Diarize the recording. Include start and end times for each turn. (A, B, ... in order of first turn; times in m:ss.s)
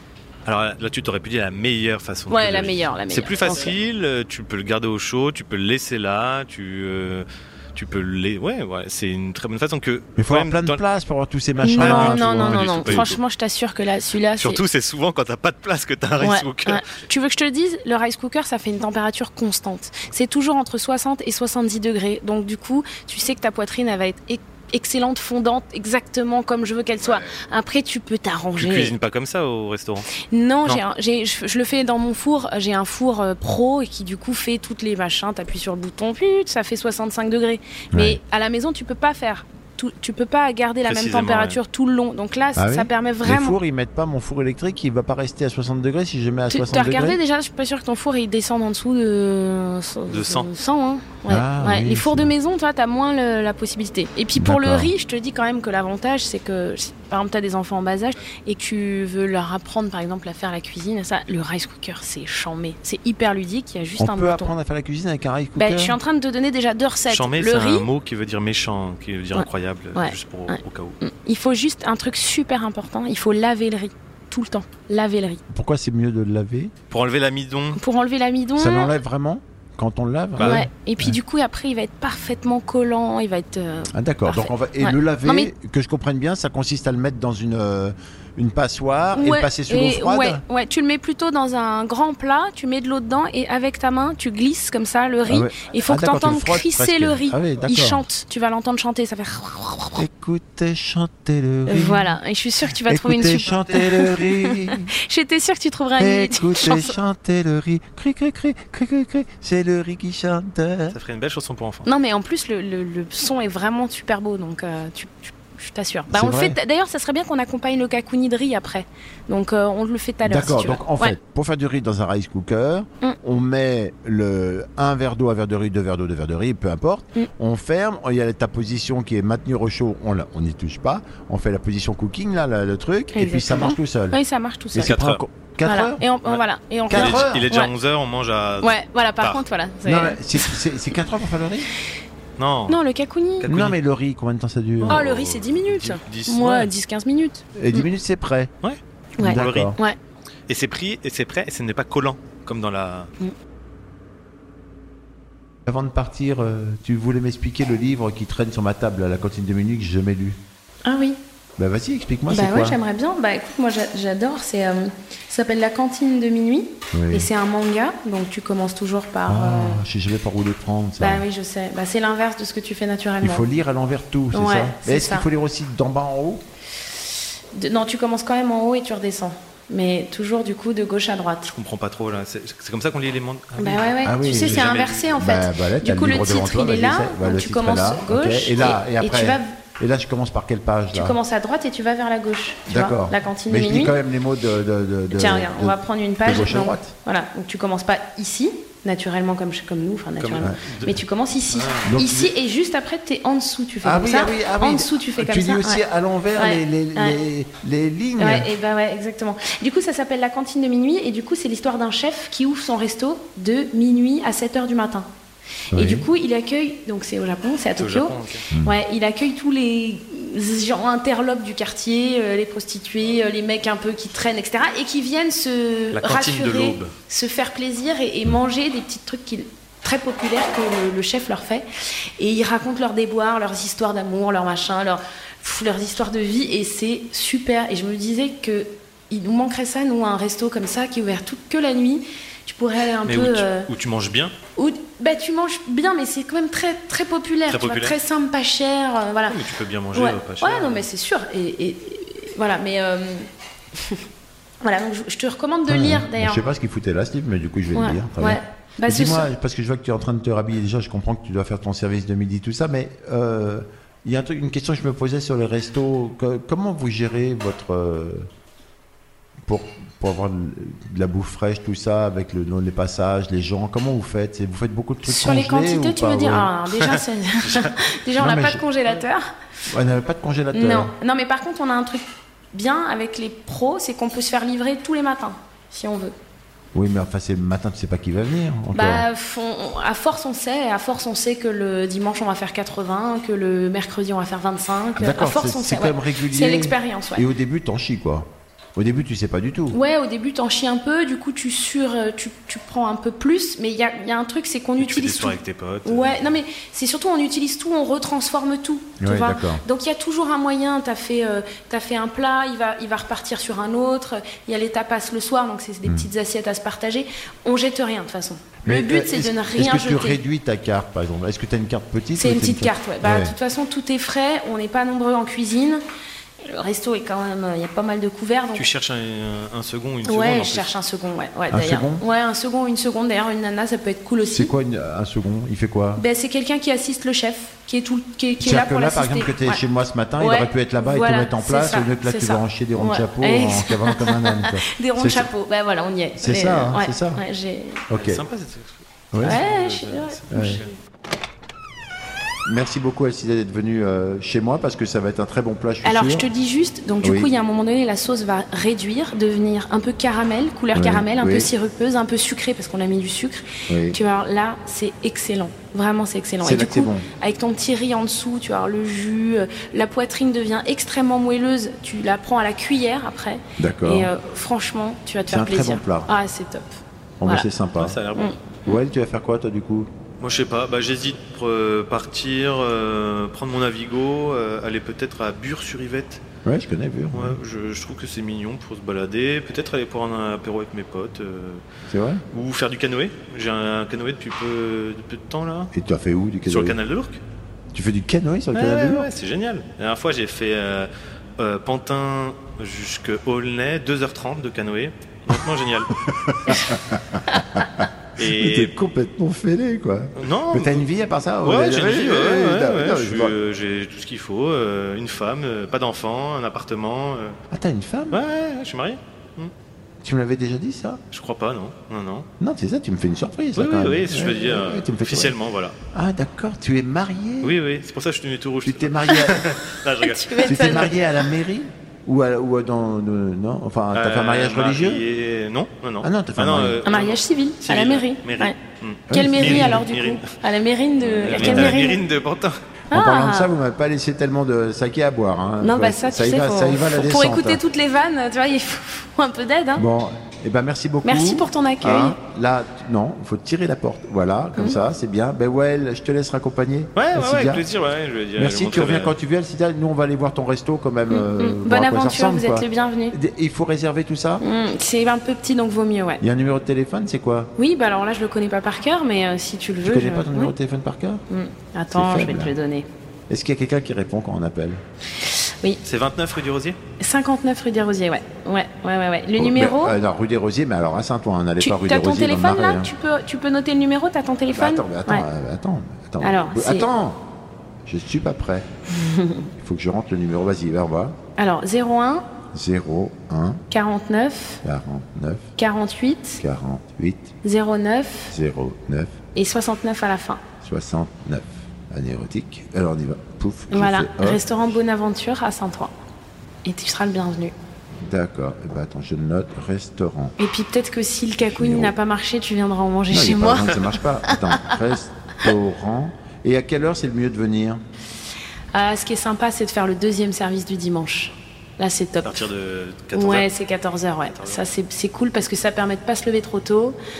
0:00.4-0:10.8 A
0:02.3-0:03.8 B
0:10.2-0:13.1 C
0:11.6-0:14.6 B
0:11.7-0:13.2 A
0:14.4-0:16.8 A
0:16.2-0:28.9 B
0:28.6-0:30.1 A
0:30.2-0:43.6 B
0:37.9-0:38.2 C
0:40.8-0:41.6 A
0:42.6-0:47.2 C
0:46.5-1:04.5 B
0:50.1-0:50.5 A
0:51.3-0:52.3 C
0:54.4-0:54.9 C
1:04.0-1:06.0 C
1:05.6-1:07.9 B
1:07.1-1:11.0 A
1:09.3-1:15.4 B
1:15.5-1:16.7 C
1:16.9-1:17.8 A
1:17.8-1:18.9 B
1:18.6-1:21.2 C
1:20.4-1:20.6 A
1:20.4-1:25.5 B
1:23.9-1:30.4 C
1:29.1-1:40.0 B
1:35.3-1:38.0 C
1:40.0-1:42.1 C
1:41.7-1:46.9 B
1:42.8-1:44.9 C
1:46.0-1:51.0 C
1:50.9-1:51.8 A
1:51.8-2:01.2 B
1:56.1-1:56.6 C
2:00.2-2:14.2 C
2:13.1-2:14.9 B
2:14.7-2:16.0 C
2:14.8-2:15.2 A
2:15.6-2:17.7 B
2:16.2-2:19.4 A
2:16.9-2:17.5 C
2:18.6-2:20.6 B
2:19.8-2:21.7 C
2:22.4-2:22.8 A
2:22.7-2:23.5 B
2:23.4-2:23.8 A
2:23.4-2:25.0 C
2:24.8-2:26.7 A
2:24.8-2:27.9 B
2:27.6-2:28.5 C
2:28.6-2:29.8 A
2:29.2-2:29.8 C
2:29.2-2:30.0 B
2:30.5-2:33.1 A
2:35.6-2:40.4 C
2:40.8-2:41.2 B
2:41.6-2:42.8 C
2:42.3-2:49.8 B
2:46.9-2:47.3 C
2:49.3-2:51.2 C
2:51.0-2:53.4 B
2:53.2-2:56.4 C
2:54.3-2:55.3 B
2:57.5-3:01.5 B
3:01.5-3:05.1 A
3:03.6-3:09.6 B
3:04.0-3:11.2 C
3:10.9-3:13.9 B
3:12.7-3:16.9 C
3:15.1-3:25.8 B
3:20.2-3:21.0 A
3:21.5-3:21.9 A
3:21.8-3:22.3 C
3:23.8-3:28.5 C
3:26.4-3:27.2 B
3:28.2-3:35.1 B
3:35.7-3:36.0 C
3:35.7-3:51.6 B
3:37.8-3:38.5 A
3:45.9-3:46.9 A
3:52.2-4:03.7 B
4:03.0-4:04.3 A
4:04.5-4:09.4 B
4:07.5-4:08.0 A
4:09.3-4:10.8 A
4:09.9-4:14.0 B
4:14.6-4:16.5 B
4:15.7-4:28.3 C
4:17.7-4:19.3 B
4:29.4-4:36.5 C
4:35.0-4:39.3 B
4:38.2-4:38.6 C
4:39.7-4:40.9 C
4:40.5-4:46.1 B
4:46.7-4:49.0 C
4:48.7-4:57.2 B
4:55.0-4:59.8 C
4:59.7-5:20.2 B
5:04.8-5:06.2 A
5:09.0-5:09.6 C
5:18.6-5:23.3 C
5:22.2-5:25.8 B
5:26.4-5:28.6 B
5:28.5-5:30.7 A
5:30.0-5:34.5 B
5:31.5-5:32.0 C
5:34.3-5:36.0 C
5:36.0-5:39.6 B
5:38.4-5:45.3 C
5:40.2-5:47.8 B
5:46.2-5:47.2 C
5:47.9-5:48.2 C
5:47.9-5:50.6 A
5:49.1-5:49.4 C
5:49.2-5:50.7 B
5:50.3-5:50.6 C
5:52.4-5:56.3 C
5:55.8-6:17.5 B
5:57.0-5:57.3 C
6:00.7-6:01.5 C
6:03.7-6:04.0 C
6:06.4-6:07.0 C
6:13.6-6:14.1 C
6:15.3-6:16.1 C
6:17.2-6:18.0 C
6:17.8-6:18.3 A
6:18.1-6:18.7 B
6:18.6-6:19.9 C
6:20.2-6:26.2 A
6:26.4-6:27.4 C
6:27.1-6:31.6 A
6:31.9-6:32.2 C
6:32.3-6:35.7 A
6:35.7-6:36.8 C
6:36.4-6:37.2 A
6:37.7-6:39.1 C
6:38.5-6:46.0 A
6:46.1-6:53.3 C
6:48.2-6:48.8 A
6:50.2-6:50.8 A
6:51.4-6:57.4 A
6:57.5-6:58.2 C
6:58.1-6:59.5 A
7:00.0-7:01.0 C
7:01.1-7:02.3 A
7:02.4-7:05.3 C
7:03.6-7:05.8 A
7:05.9-7:07.6 C
7:07.4-7:10.8 A
7:08.6-7:09.5 C
7:10.0-7:11.3 B
7:10.4-7:15.0 C
7:13.9-7:20.3 A
7:16.0-7:16.8 C
7:16.8-7:18.6 B
7:19.1-7:19.8 C
7:19.1-7:22.0 B
7:21.0-7:22.6 A
7:21.4-7:21.9 C
7:22.9-7:23.5 B
7:22.9-7:27.6 C
7:25.6-7:29.8 B
7:29.8-7:37.6 C
7:31.0-7:32.2 B
7:36.9-7:39.1 A
7:38.4-7:44.4 C
7:41.1-7:43.2 B
7:44.4-7:46.2 B
7:46.2-7:47.5 C
7:47.6-7:50.5 B
7:49.8-7:51.2 C
7:51.3-7:52.9 B
7:51.9-7:52.5 C
7:53.3-7:54.8 C
7:55.2-7:55.8 B
7:55.8-7:56.8 A
7:57.0-8:00.0 B
7:59.4-8:02.9 C
8:01.6-8:05.2 B
8:04.5-8:07.2 C
8:06.2-8:06.9 B
8:07.8-8:08.6 C
8:08.9-8:09.5 B
8:09.6-8:11.2 C
8:11.4-8:12.2 B
8:12.5-8:13.6 C
8:13.7-8:14.6 B
8:14.6-8:15.5 C
8:15.6-8:16.4 B
8:16.4-8:17.3 C
8:17.4-8:18.3 B
8:18.3-8:19.2 C
8:19.3-8:20.4 B
8:20.6-8:24.4 C
8:23.7-8:25.9 B
8:26.6-8:27.5 B
8:28.0-8:30.3 C
8:30.4-8:34.7 B
8:31.4-8:31.9 C
8:33.1-8:37.8 C
8:38.7-8:42.5 B
8:42.2-8:43.5 A
8:43.1-8:47.0 B
8:44.3-8:44.6 A